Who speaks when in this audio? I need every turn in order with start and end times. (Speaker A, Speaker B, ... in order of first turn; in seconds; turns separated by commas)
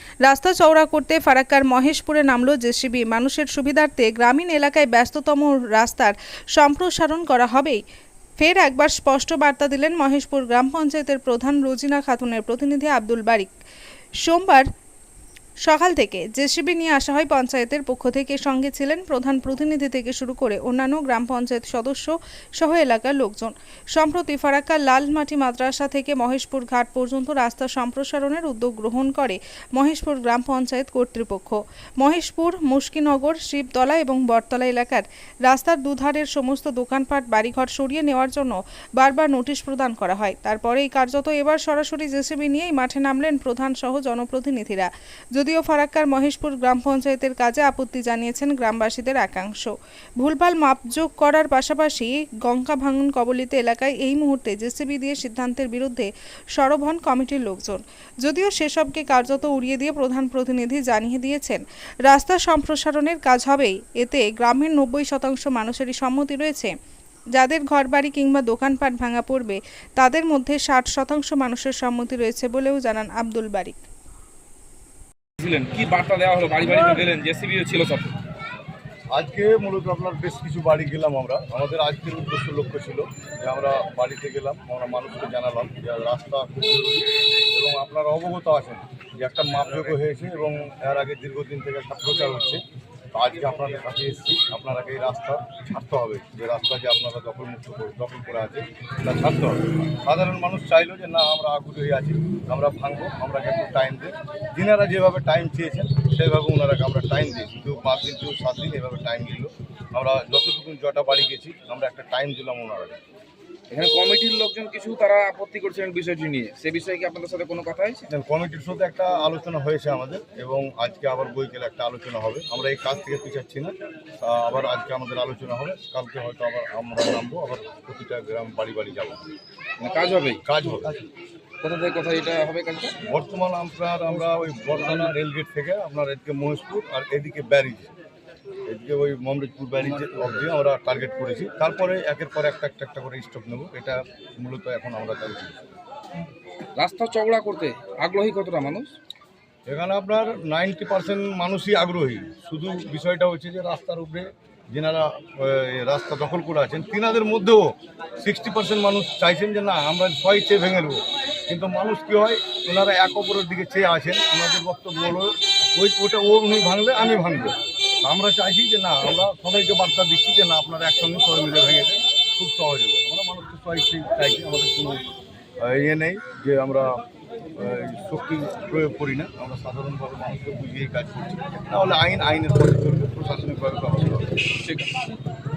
Speaker A: 0.2-7.8, Speaker A: 8.4-13.5, Speaker A: 14.2-14.7, Speaker A: 15.6-66.7, Speaker A: 67.3-73.8, Speaker B: 75.4-78.1, Speaker C: 79.1-92.6, Speaker C: 93.1-113.0, Speaker B: 113.7-118.1, Speaker C: 118.1-129.2, Speaker B: 129.8-130.9, Speaker C: 130.4-131.0, Speaker B: 131.6-132.9, Speaker C: 133.0-137.9, Speaker C: 138.7-145.7, Speaker B: 146.8-148.9, Speaker C: 149.7-175.1, Speaker C: 175.6-177.0, Speaker C: 177.6-184.4, Speaker B: 184.6-184.9